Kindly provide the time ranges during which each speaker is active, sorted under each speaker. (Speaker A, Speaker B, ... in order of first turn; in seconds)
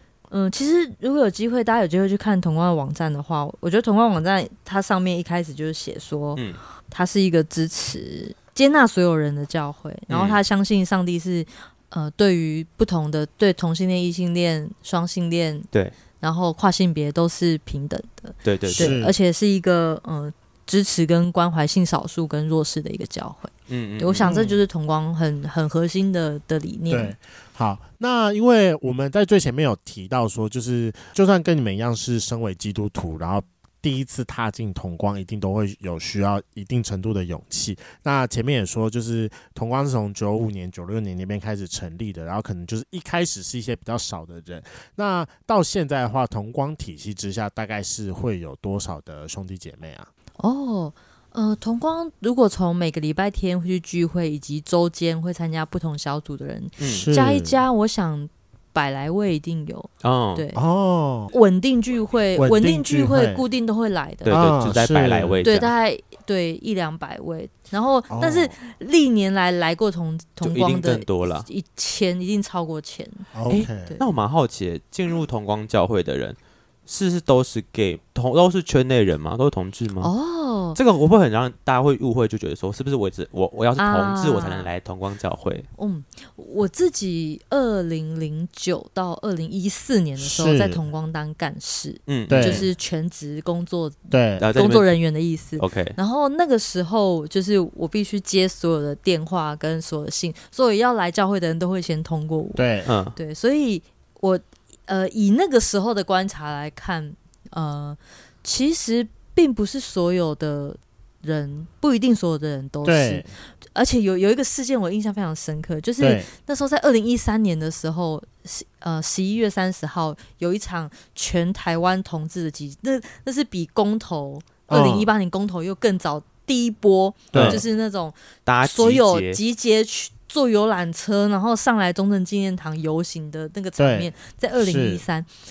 Speaker A: 0.3-15.7, 16.2-27.1, 50.4-60.6, 61.3-64.5, 65.4-73.3, 80.0-80.8, 83.8-84.7, 85.8-135.3
Speaker B: 6.3-6.6, 10.1-10.4, 18.4-19.0, 23.7-24.4, 56.8-57.1, 60.0-60.4, 64.2-65.7, 70.4-71.5, 73.5-80.1, 80.7-85.7, 92.1-92.7, 94.4-94.9, 95.6-96.0, 102.8-103.2, 127.3-127.6, 128.4-129.4
Speaker C: 18.7-19.1, 24.2-24.6, 26.9-50.1, 56.9-57.6, 60.5-61.3, 62.4-63.4, 64.3-65.4, 68.1-68.5, 73.3-73.9, 90.2-90.8, 92.3-92.7, 94.1-94.4, 102.5-102.9, 112.8-113.3, 116.0-116.3, 124.7-125.1, 127.3-127.6, 133.8-135.0